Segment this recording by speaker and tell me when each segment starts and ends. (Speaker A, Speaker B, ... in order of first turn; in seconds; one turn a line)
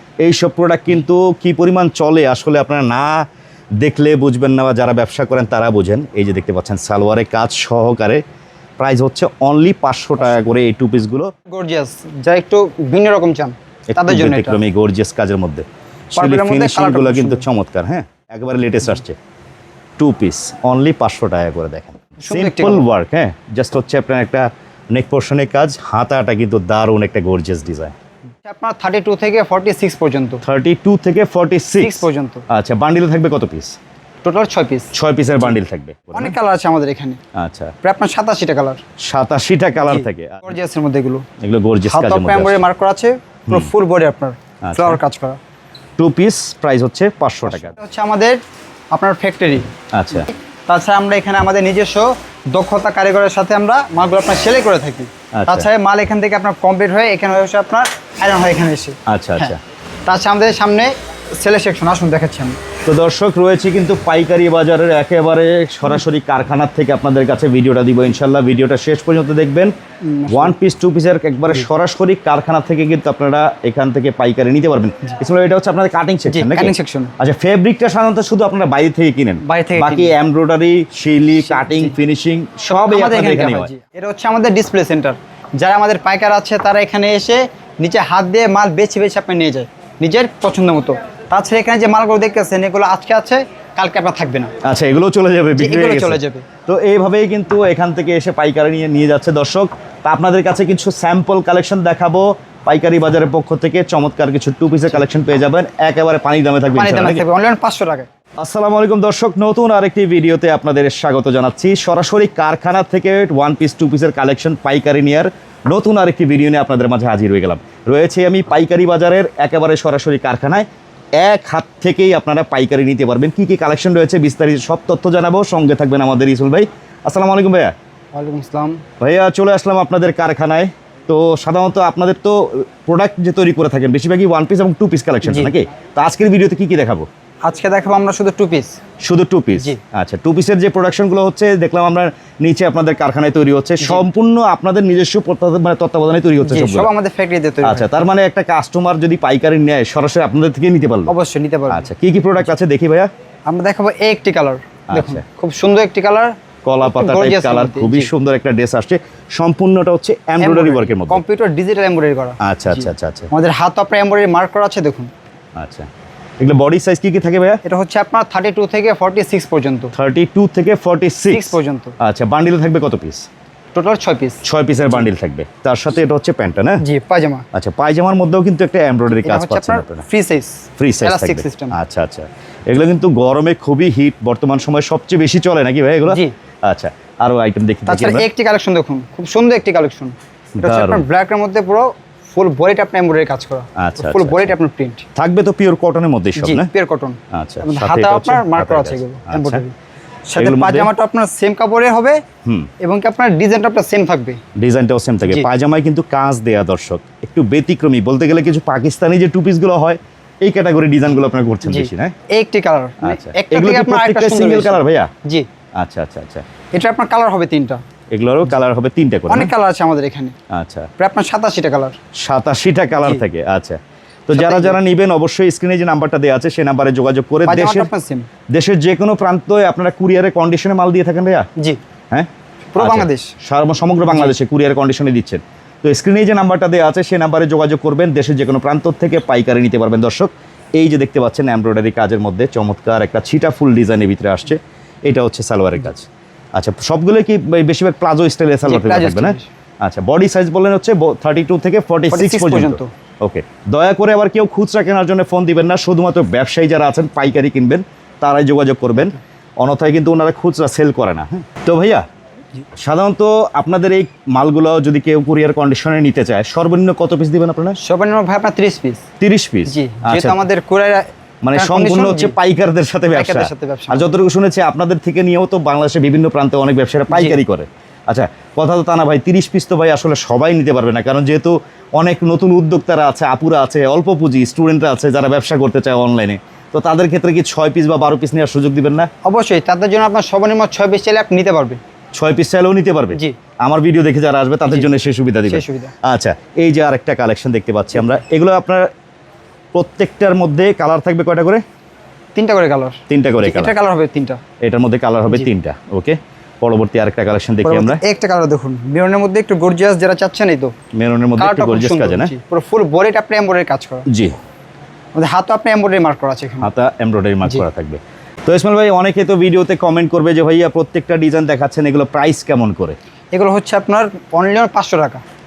Speaker A: 0.2-3.2
Speaker A: 3.8-8.2
Speaker A: 8.8-11.3
Speaker B: 11.5-14.6
Speaker A: 13.9-19.2
Speaker B: 16.1-17.4
Speaker A: 20.0-27.9
Speaker B: 22.2-22.9
Speaker B: 28.4-30.4
Speaker A: 30.4-33.8
Speaker B: 31.8-32.5
Speaker B: 34.2-35.5
Speaker A: 34.9-36.4
Speaker B: 36.1-37.2
Speaker A: 37.3-37.7
Speaker B: 37.8-38.8
Speaker A: 39.0-40.5
Speaker B: 39.8-41.3
Speaker A: 41.4-42.6
Speaker B: 41.9-45.4
Speaker A: 44.6-45.0
Speaker A: 46.0-47.8
Speaker B: 47.5-48.4
Speaker B: 48.9-49.7
Speaker A: 49.9-50.3
Speaker B: 50.3-59.5
Speaker A: 55.3-55.7
Speaker A: 59.1-59.6
Speaker B: 60.0-62.6
Speaker A: 62.8-69.7
Speaker B: 70.0-70.5
Speaker A: 70.3-83.7
Speaker B: 76.3-77.1
Speaker B: 79.4-80.2
Speaker B: 81.3-82.0
Speaker B: 82.7-94.5
Speaker A: 94.6-107.2
Speaker B: 95.5-96.5
Speaker B: 106.8-108.1
Speaker A: 108.4-120.7
Speaker A: 121.2-127.7
Speaker B: 128.1-128.8
Speaker A: 129.0-137.1
Speaker B: 135.2-135.5
Speaker B: 137.4-138.8
Speaker A: 139.0-146.9
Speaker B: 143.8-144.1
Speaker B: 146.4-147.9
Speaker A: 147.6-151.1
Speaker B: 151.1-151.9
Speaker A: 151.7-153.1
Speaker B: 153.5-158.1
Speaker A: 154.9-155.2
Speaker A: 156.6-161.2
Speaker B: 160.4-165.1
Speaker A: 162.4-163.3
Speaker A: 165.6-165.9
Speaker A: 166.4-167.6
Speaker B: 167.6-169.9
Speaker A: 169.9-173.3
Speaker B: 171.3-171.9
Speaker B: 173.7-175.0
Speaker A: 174.4-176.8
Speaker B: 176.8-177.5
Speaker A: 177.5-180.1
Speaker B: 179.1-181.8
Speaker A: 180.8-188.2
Speaker B: 186.1-186.3
Speaker B: 187.9-195.0
Speaker A: 190.6-191.0
Speaker A: 193.8-194.5
Speaker A: 195.1-196.7
Speaker B: 196.4-199.7
Speaker A: 197.3-199.6
Speaker B: 200.3-202.2
Speaker A: 200.4-200.9
Speaker A: 202.4-202.7
Speaker B: 202.8-204.4
Speaker A: 204.6-212.1
Speaker B: 211.6-215.5
Speaker A: 213.0-215.1
Speaker A: 215.8-216.4
Speaker B: 216.7-217.8
Speaker A: 218.1-219.5
Speaker B: 219.3-220.3
Speaker A: 220.5-220.9
Speaker B: 221.0-222.0
Speaker A: 222.1-227.9
Speaker B: 223.0-223.2
Speaker B: 224.3-224.8
Speaker B: 227.4-228.3
Speaker A: 228.5-231.5
Speaker A: 232.1-262.1
Speaker B: 232.7-233.3
Speaker B: 234.1-234.3
Speaker B: 248.6-249.5
Speaker B: 252.1-252.9
Speaker A: 262.8-267.8
Speaker B: 267.8-269.1
Speaker A: 269.2-270.4
Speaker B: 269.6-272.4
Speaker A: 271.4-289.1
Speaker B: 273.1-274.1
Speaker B: 277.1-277.4
Speaker B: 289.2-291.8
Speaker A: 292.1-298.9
Speaker B: 295.5-295.9
Speaker A: 299.7-301.6
Speaker B: 302.3-304.4
Speaker A: 303.1-303.7
Speaker A: 304.6-308.0
Speaker B: 307.6-310.7
Speaker A: 310.9-312.3
Speaker B: 311.4-314.1
Speaker A: 314.1-314.3
Speaker B: 315.1-316.7
Speaker A: 316.6-323.0
Speaker B: 323.3-325.2